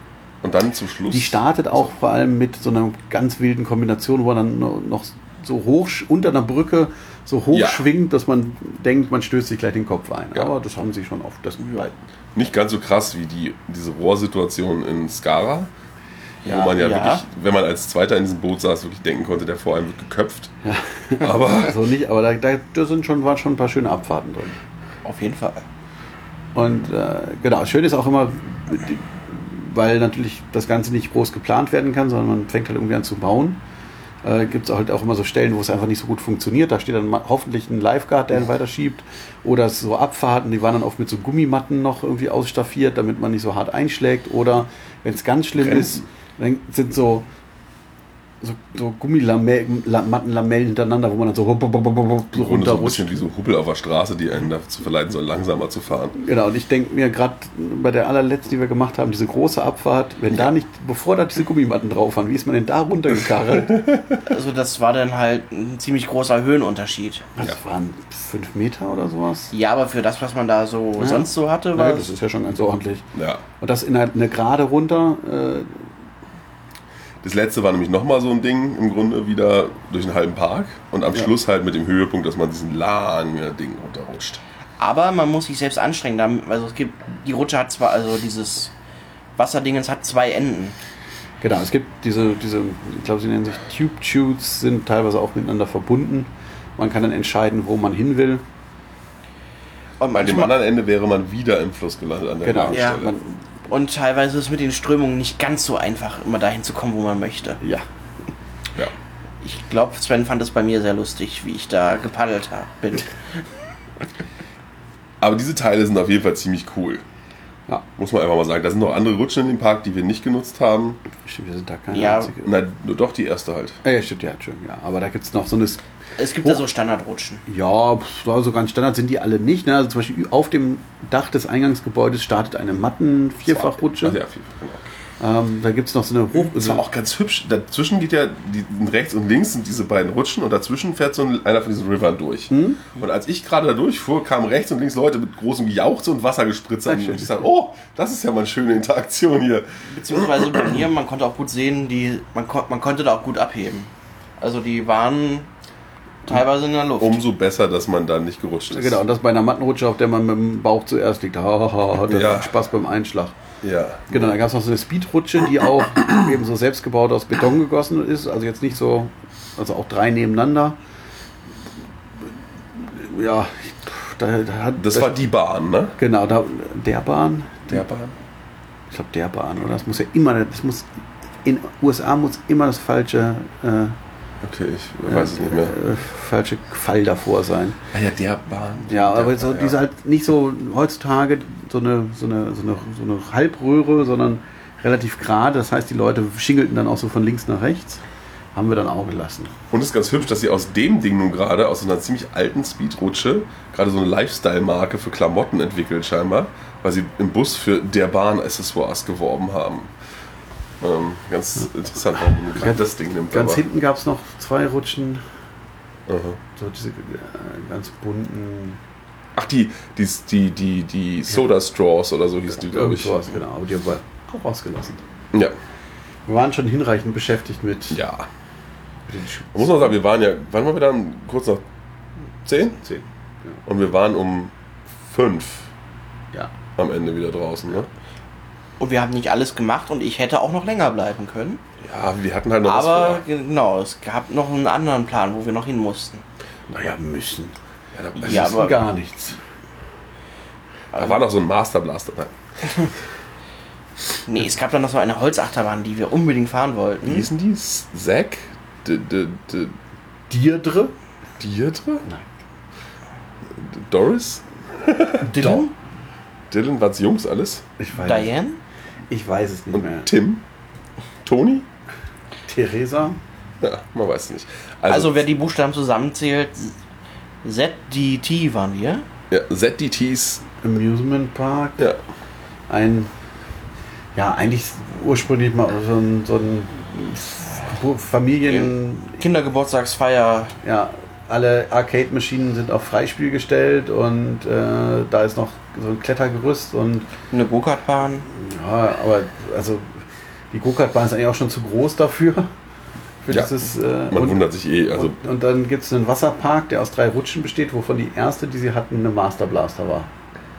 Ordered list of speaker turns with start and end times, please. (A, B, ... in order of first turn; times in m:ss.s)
0:00.4-0:01.4 A
0:01.1-0:11.9 B
0:07.5-0:07.8 A
0:12.3-0:15.7 A
0:16.4-0:17.2 C
0:16.4-0:20.5 A
0:20.6-0:24.6 B
0:21.2-0:21.8 A
0:25.0-0:25.6 C
0:26.5-0:33.6 B
0:34.2-0:47.3 B
0:45.6-0:46.0 A
0:48.4-0:53.2 B
0:52.3-0:56.2 A
0:56.2-1:03.9 B
1:04.2-1:07.2 C
1:07.4-1:09.5 B
1:09.5-1:12.1 C
1:11.0-1:15.8 B
1:13.1-1:13.4 A
1:17.2-1:24.4 A
1:24.8-1:28.7 C
1:29.4-1:30.8 C
1:31.4-1:38.4 B
1:40.0-1:40.6 C
1:40.1-1:43.1 A
1:42.4-1:43.4 B
1:42.7-1:43.1 C
1:43.7-1:47.6 C
1:49.4-1:53.1 C
1:55.2-1:57.0 A
1:58.0-2:01.0 A
2:01.2-2:02.5 B
2:01.9-2:02.3 C
2:02.4-2:03.8 A
2:03.8-2:05.8 B
2:06.2-2:07.4 C
2:07.4-2:14.2 B
2:13.5-2:14.9 A
2:15.2-2:16.8 B
2:16.3-2:30.3 A
2:22.5-2:22.8 B
2:29.9-2:35.5 C
2:36.3-2:37.2 C
2:37.0-2:39.0 A
2:38.7-2:43.4 B
2:42.0-2:42.5 A
2:43.6-2:44.4 A
2:44.1-2:50.8 B
2:52.8-2:55.2 B
2:54.8-2:56.0 A
2:56.0-2:57.8 B
2:57.7-2:58.2 A
2:58.9-3:00.9 B
3:01.4-3:04.0 B
3:04.4-3:05.8 A
3:05.0-3:07.8 B
3:07.9-3:09.8 A
3:08.9-3:18.0 B
3:18.5-3:19.5 B
3:19.7-3:29.9 A
3:30.8-3:33.6 A
3:33.3-3:35.2 B
3:36.1-3:36.4 A
3:36.6-3:38.8 B
3:39.4-3:43.2 A
3:42.6-3:45.0 B
3:46.2-3:48.0 B
3:47.9-3:48.3 A
3:49.1-3:49.8 B
3:49.5-3:51.6 A
3:52.4-3:52.8 A
3:52.8-3:53.6 B
3:53.6-3:55.7 A
3:56.8-3:57.9 A
3:58.8-4:01.6 C
4:01.8-4:03.2 A
4:02.6-4:06.2 C
4:06.7-4:07.5 B
4:07.9-4:08.7 A
4:08.2-4:09.4 B
4:08.2-4:08.8 C
4:10.9-4:12.3 A
4:14.3-4:17.3 C
4:17.0-4:19.7 A
4:20.3-4:20.9 B
4:21.4-4:22.0 A
4:23.5-4:25.6 A
4:25.2-4:25.7 B
4:26.5-4:27.6 A
4:27.8-4:28.3 B
4:28.0-4:28.6 C
4:29.1-4:30.1 B
4:29.7-4:30.4 A
4:31.2-4:31.7 A
4:32.4-4:33.2 B
4:33.6-4:35.3 A
4:34.9-4:36.8 C
4:37.4-4:39.0 C
4:39.3-4:40.4 A
4:40.6-4:41.9 B
4:42.7-4:43.1 B
4:44.1-4:49.2 B
4:48.5-4:50.5 C
4:50.6-4:57.1 B
4:57.3-4:58.3 C
4:58.3-5:00.0 B
5:00.5-5:02.5 B
5:03.2-5:10.1 B
5:04.1-5:05.2 A